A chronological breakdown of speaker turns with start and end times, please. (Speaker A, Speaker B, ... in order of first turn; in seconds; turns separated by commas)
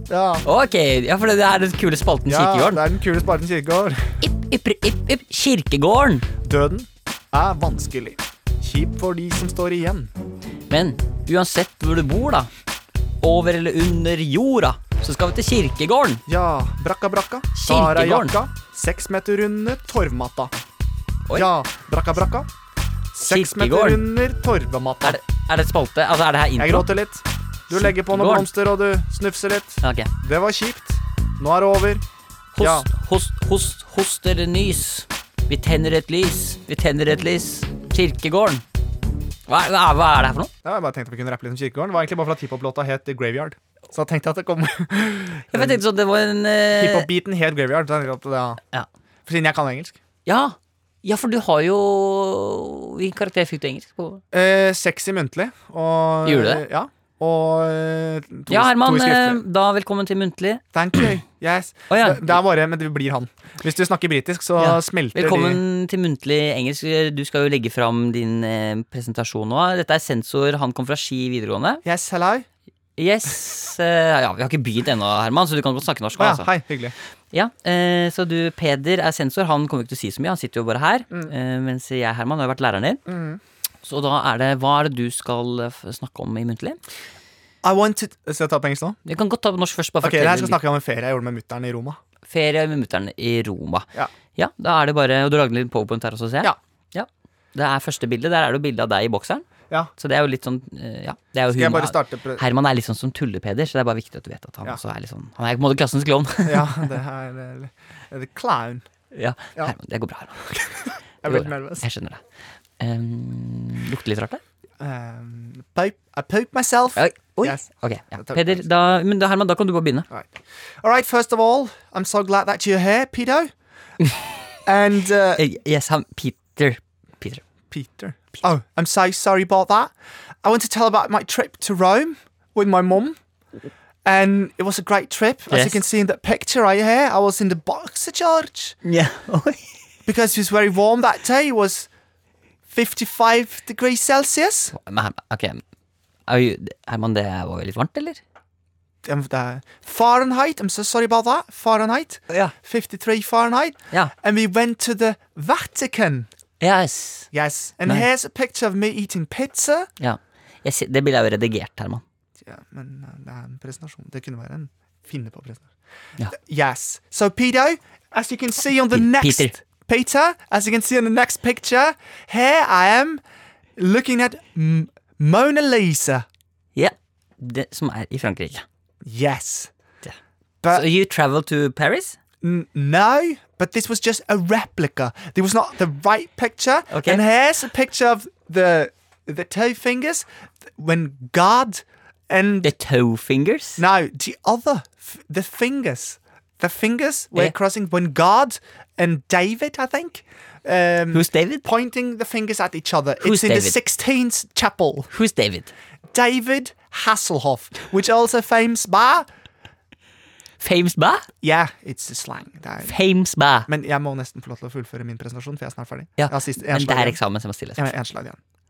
Speaker A: 0.1-0.5, Speaker B: 0.4-2.8, Speaker A: 2.3-4.1, Speaker B: 4.2-6.3, Speaker A: 6.4-10.1, Speaker B: 10.7-12.5, Speaker B: 13.2-16.2, Speaker A: 16.3-20.5, Speaker B: 17.6-18.4, Speaker A: 21.3-22.5, Speaker A: 23.1-25.2, Speaker B: 23.2-24.1, Speaker B: 25.0-26.9, Speaker A: 26.6-32.0, Speaker B: 27.7-28.5, Speaker B: 29.8-30.1, Speaker B: 32.5-38.6, Speaker A: 32.6-32.9, Speaker B: 39.5-40.5, Speaker A: 40.6-45.8, Speaker B: 45.5-47.1, Speaker A: 46.7-48.6, Speaker A: 49.3-50.0, Speaker B: 50.3-54.2, Speaker A: 54.3-59.4, Speaker B: 56.2-56.6, Speaker B: 58.5-60.6, Speaker A: 60.7-65.6, Speaker B: 61.9-62.4, Speaker B: 64.6-71.8, Speaker A: 71.8-72.5, Speaker B: 73.0-76.5, Speaker A: 76.2-76.9, Speaker B: 77.3-83.0, Speaker A: 83.1-83.4, Speaker B: 83.8-86.8, Speaker A: 87.6-89.0, Speaker B: 89.0-90.6, Speaker A: 90.0-92.0, Speaker B: 92.3-99.5, Speaker B: 100.0-106.9, Speaker A: 101.5-102.4, Speaker A: 106.5-108.9, Speaker B: 109.1-110.5, Speaker A: 110.5-111.8, Speaker B: 111.3-112.2, Speaker B: 112.8-114.4, Speaker A: 114.8-118.6, Speaker B: 117.0-120.1, Speaker A: 120.1-123.5, Speaker A: 124.7-125.4, Speaker B: 125.4-127.4, Speaker A: 127.7-133.2, Speaker A: 134.1-138.8, Speaker B: 135.5-135.8, Speaker B: 138.8-139.6, Speaker A: 140.1-141.9, Speaker A: 142.7-144.8, Speaker B: 144.7-145.6, Speaker B: 146.3-148.2, Speaker A: 149.0-156.3, Speaker B: 156.6-157.3, Speaker A: 157.3-159.9, Speaker B: 160.0-162.0, Speaker A: 162.4-165.7, Speaker A: 166.3-173.2, Speaker B: 168.9-169.6, Speaker A: 173.8-176.3, Speaker B: 176.8-178.6, Speaker A: 179.0-179.7, Speaker A: 180.6-180.9, Speaker B: 180.7-182.2, Speaker A: 182.4-192.7, Speaker B: 186.9-187.2, Speaker B: 192.6-193.8, Speaker A: 193.8-205.1, Speaker B: 201.1-201.7, Speaker B: 203.2-203.8, Speaker B: 205.1-205.7, Speaker A: 206.1-209.3, Speaker B: 210.6-211.3, Speaker A: 211.4-212.9, Speaker B: 212.8-213.7, Speaker A: 213.7-217.2, Speaker B: 216.2-217.9, Speaker A: 217.8-218.4